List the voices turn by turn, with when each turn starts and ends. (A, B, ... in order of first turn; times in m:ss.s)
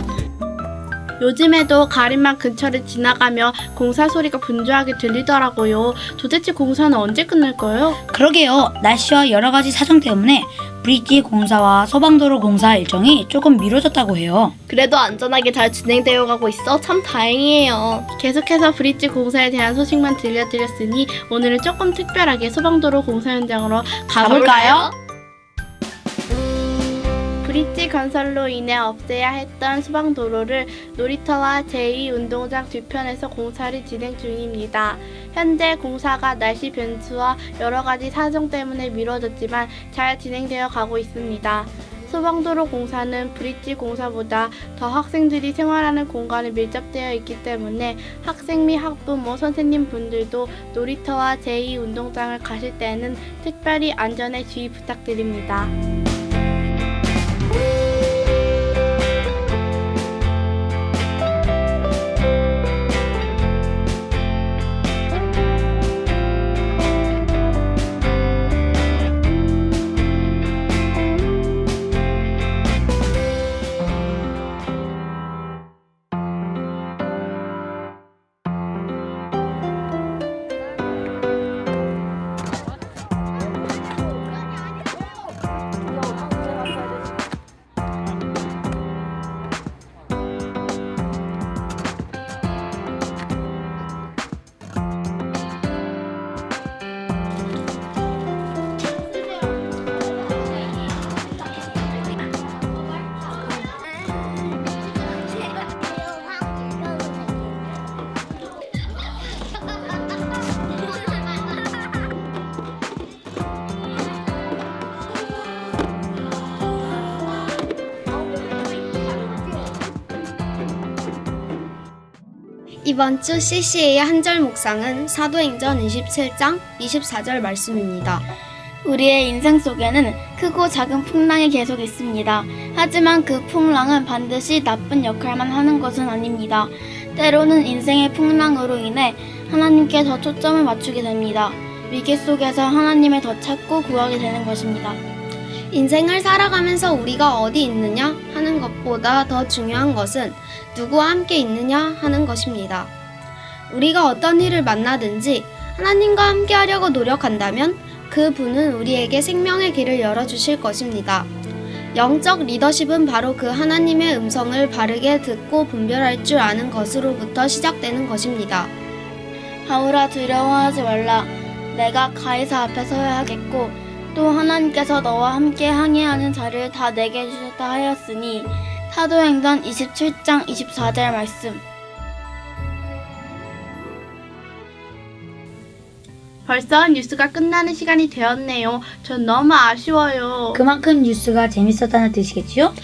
0:01.2-0:08.0 A
0:08.1-0:14.5 B
0:14.7-0:18.1 C
0:18.2-0:24.9 A
0:24.2-0:24.9 C
0:27.4-0:55.7 A
2:02.8-2:08.2 D
2:08.8-2:25.0 E
2:25.7-2:32.9 D
2:33.7-2:41.3 D
2:41.9-2:48.7 D
2:49.6-3:01.6 E
3:06.5-3:10.6 A
3:10.5-3:12.7 B